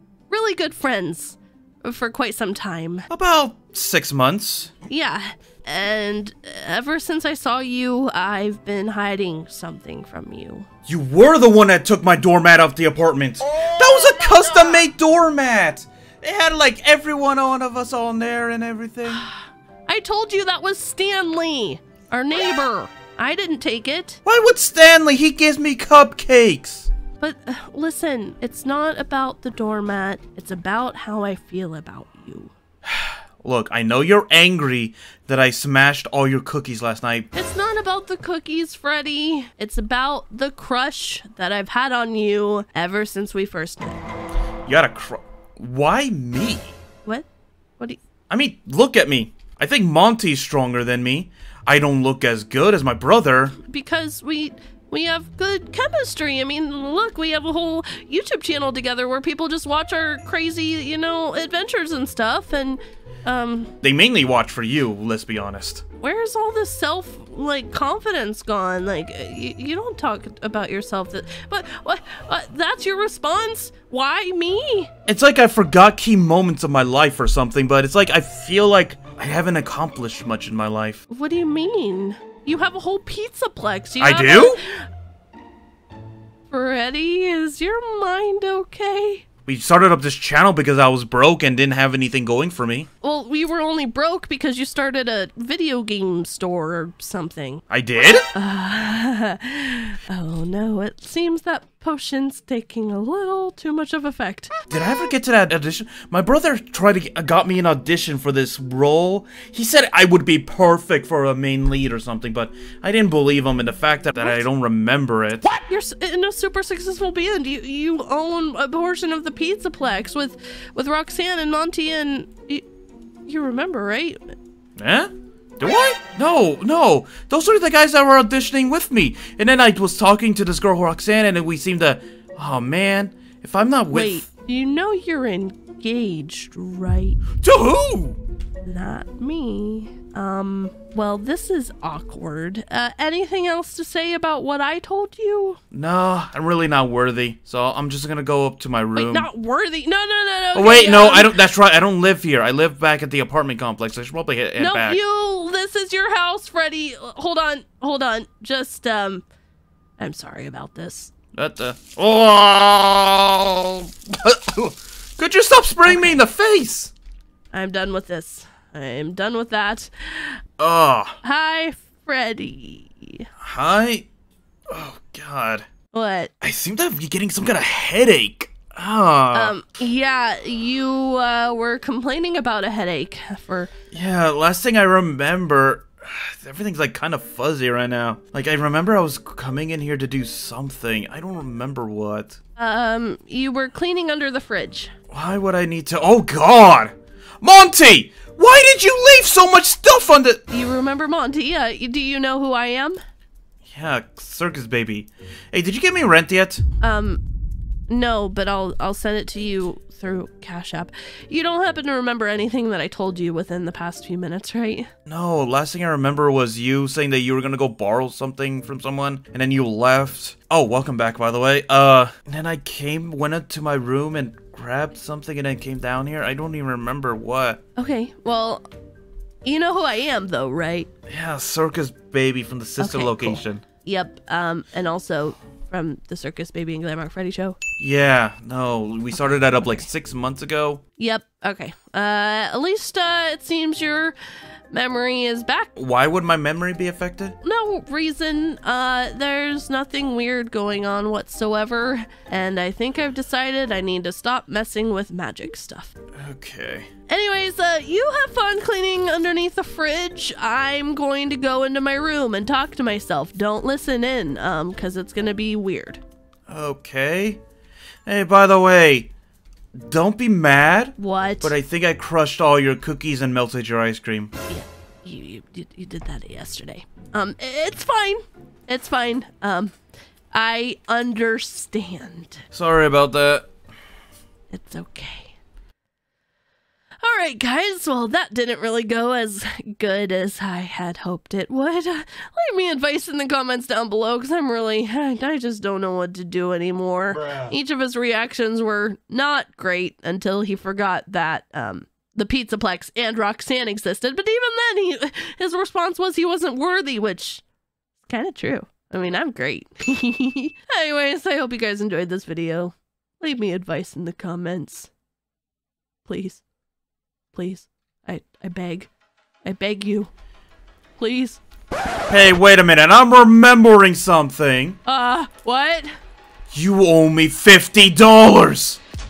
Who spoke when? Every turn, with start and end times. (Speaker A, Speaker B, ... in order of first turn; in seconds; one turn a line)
Speaker A: 0.3-3.1
Speaker B: 3.1-4.8
Speaker A: 4.9-10.7
Speaker B: 10.9-19.3
Speaker A: 19.1-24.2
Speaker B: 24.2-26.9
Speaker A: 27.2-32.5
Speaker B: 32.8-37.3
Speaker A: 37.4-44.0
Speaker B: 44.7-46.8
Speaker B: 48.3-53.6
Speaker A: 53.6-63.7
Speaker B: 63.8-65.8
Speaker A: 66.0-74.9
Speaker B: 75.1-81.0
Speaker A: 81.1-84.9
Speaker B: 84.0-84.6
Speaker A: 86.5-89.2
Speaker B: 89.5-92.9
Speaker A: 93.0-97.6
Speaker B: 97.7-98.3
Speaker A: 98.3-104.5
Speaker B: 104.7-115.5
Speaker A: 115.4-122.7
Speaker A: 123.2-124.3
Speaker B: 124.8-134.3
Speaker A: 133.9-137.2
Speaker B: 137.4-138.2
Speaker A: 138.7-145.6
Speaker B: 145.7-149.3
Speaker A: 148.9-151.4
Speaker B: 150.5-155.0
Speaker A: 154.6-159.2
Speaker A: 160.0-161.1
Speaker B: 161.3-166.9
Speaker A: 165.8-166.2
Speaker A: 167.5-170.4
Speaker B: 170.6-171.2
Speaker A: 171.2-173.3
Speaker B: 173.4-174.1
Speaker B: 174.7-175.7
Speaker A: 175.9-176.3
Speaker B: 176.4-179.6
Speaker A: 179.3-183.7
Speaker B: 183.9-192.4
Speaker A: 192.6-194.9
Speaker B: 195.1-200.4
Speaker A: 200.5-203.0
Speaker B: 203.6-206.6
Speaker A: 206.8-207.2
Speaker A: 207.9-214.9
Speaker B: 215.1-227.6
Speaker A: 227.8-228.7
Speaker A: 229.4-230.9
Speaker B: 231.1-233.6
Speaker A: 232.8-237.6
Speaker B: 237.8-240.8
Speaker A: 239.1-239.9
Speaker A: 241.0-244.2
Speaker A: 244.7-245.7
Speaker B: 245.8-247.4
Speaker A: 247.4-255.9
Speaker B: 256.2-256.9
Speaker A: 257.1-266.0
Speaker B: 266.5-267.4
Speaker B: 268.1-269.1
Speaker B: 269.7-274.3
Speaker A: 271.0-271.5
Speaker A: 274.5-279.8
Speaker A: 280.3-282.4
Speaker B: 282.5-283.5
Speaker A: 284.5-285.4
Speaker A: 287.0-307.4
Speaker A: 308.0-314.9
Speaker A: 316.1-316.4
Speaker A: 317.3-318.9
Speaker A: 319.4-320.1
Speaker A: 321.0-321.4
Speaker B: 322.1-324.8
Speaker A: 324.9-325.9
Speaker B: 326.5-328.8